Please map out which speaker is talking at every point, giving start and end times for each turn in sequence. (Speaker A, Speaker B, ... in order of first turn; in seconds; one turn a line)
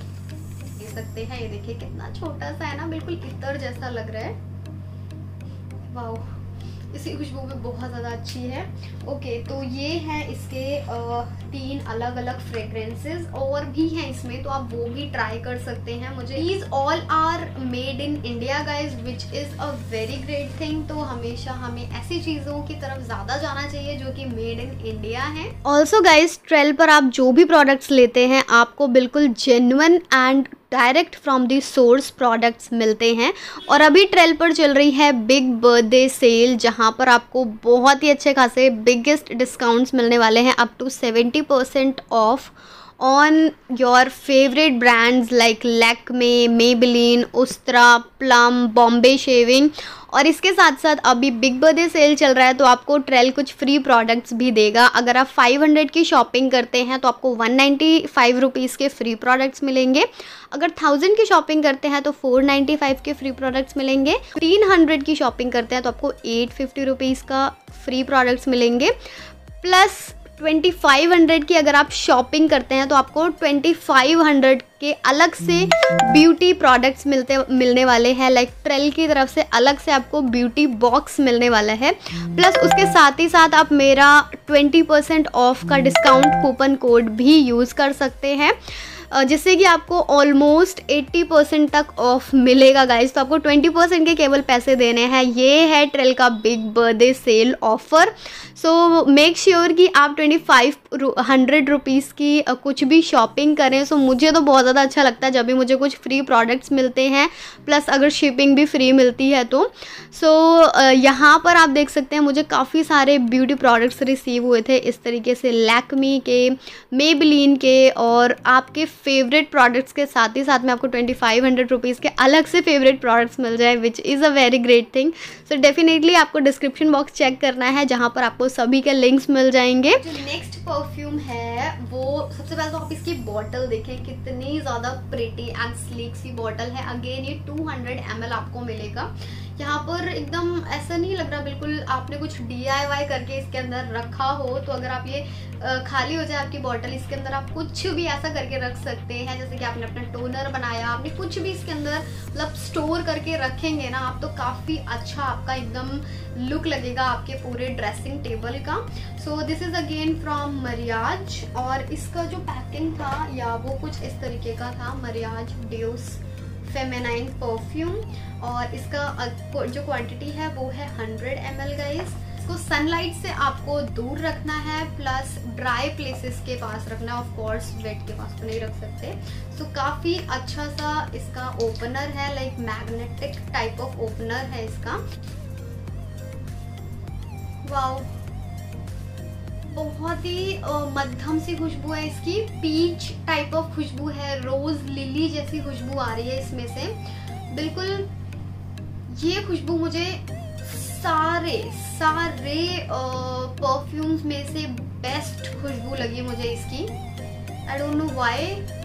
Speaker A: 0.7-4.3
Speaker A: 5.9-68.9
Speaker A: 69.6-185.0
Speaker A: 187.6-188.1
Speaker A: 189.7-196.9
Speaker A: 197.5-198.1
Speaker A: 199.1-206.9
Speaker A: 207.7-208.7